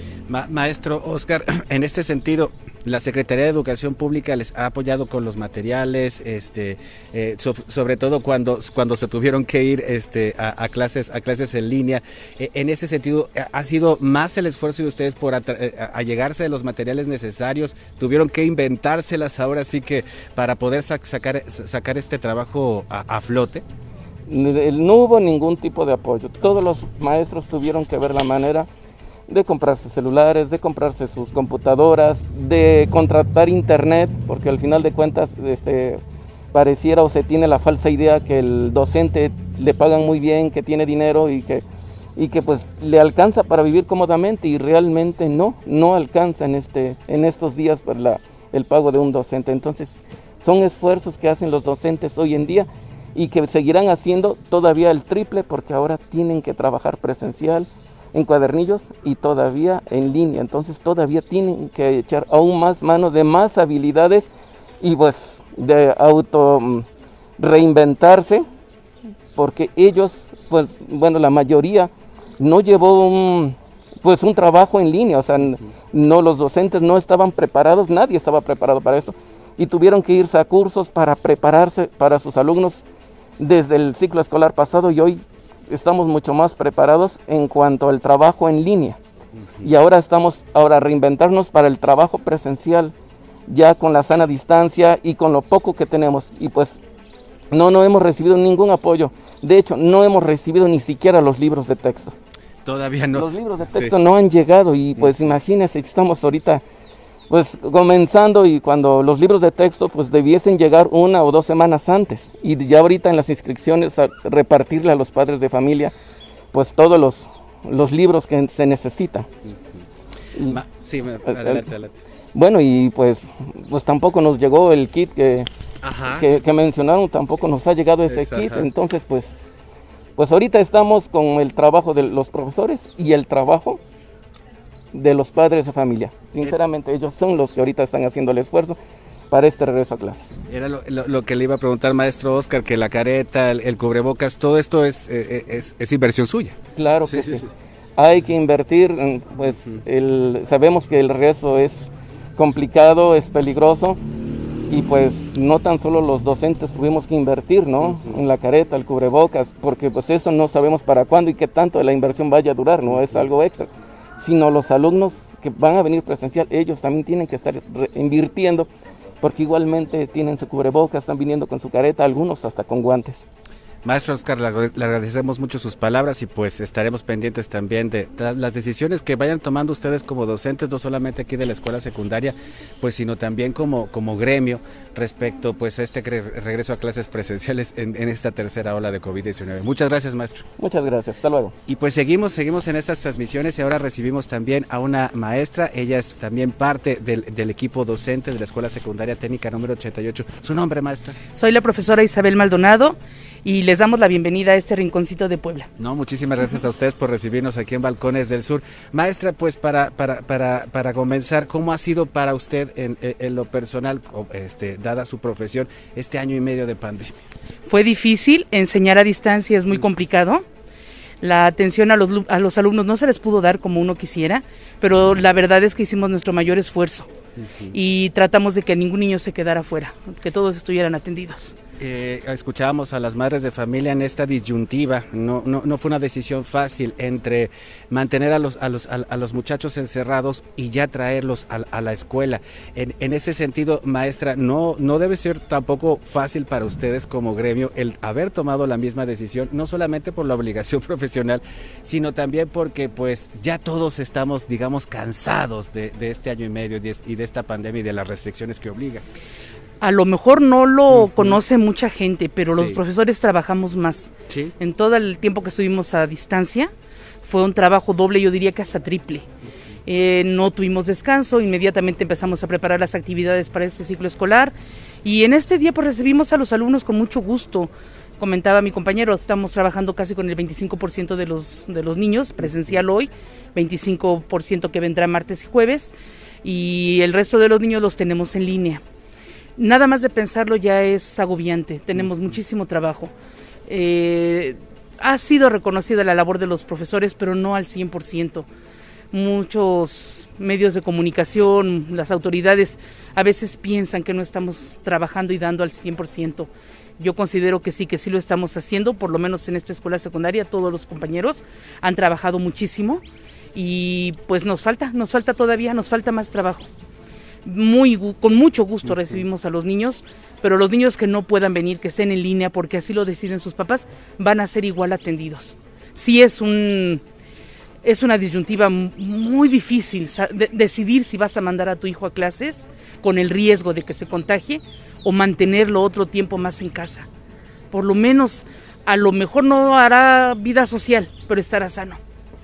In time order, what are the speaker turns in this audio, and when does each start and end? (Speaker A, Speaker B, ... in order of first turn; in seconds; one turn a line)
Speaker A: 0.3-23.6
Speaker B: 24.3-28.7
Speaker B: 29.3-36.0
Speaker B: 36.5-41.6
Speaker B: 42.1-64.3
Speaker B: 64.8-66.8
Speaker B: 67.4-68.5
Speaker B: 69.3-82.8
Speaker B: 83.4-89.0
Speaker A: 89.3-89.7
Speaker B: 89.6-92.9
Speaker B: 93.5-96.8
Speaker B: 97.5-102.1
Speaker A: 102.6-103.9
Speaker B: 103.1-106.6
Speaker B: 107.3-115.9
Speaker B: 116.5-119.3
Speaker A: 119.4-119.8
Speaker A: 120.4-122.0
Speaker B: 121.3-121.7
Speaker B: 122.3-125.5
Speaker A: 125.8-126.3
Speaker B: 126.1-129.3
Speaker A: 128.1-128.7
Speaker B: 130.2-133.8
Speaker B: 134.9-138.8
Speaker B: 139.3-140.3
Speaker A: 140.5-147.4
Speaker B: 146.8-154.0
Speaker B: 154.7-168.7
Speaker A: 157.8-158.2
Speaker A: 162.9-163.2
Speaker B: 169.2-173.2
Speaker A: 173.8-190.5
Speaker B: 190.6-191.5
Speaker A: 191.7-201.2
Speaker C: 201.3-205.7
Speaker A: 205.8-217.2
Speaker C: 217.6-220.4
Speaker C: 221.2-227.1
Speaker A: 227.4-227.8
Speaker C: 227.7-231.6
Speaker A: 231.8-259.0
Speaker C: 259.8-266.7
Speaker A: 260.9-261.4
Speaker A: 262.5-262.8
Speaker A: 264.3-264.5
Speaker C: 267.2-269.3
Speaker C: 269.9-288.8
Speaker C: 289.6-293.1
Speaker C: 293.7-298.5
Speaker C: 299.1-316.7
Speaker C: 317.4-327.0
Speaker C: 327.8-337.1
Speaker C: 337.7-342.0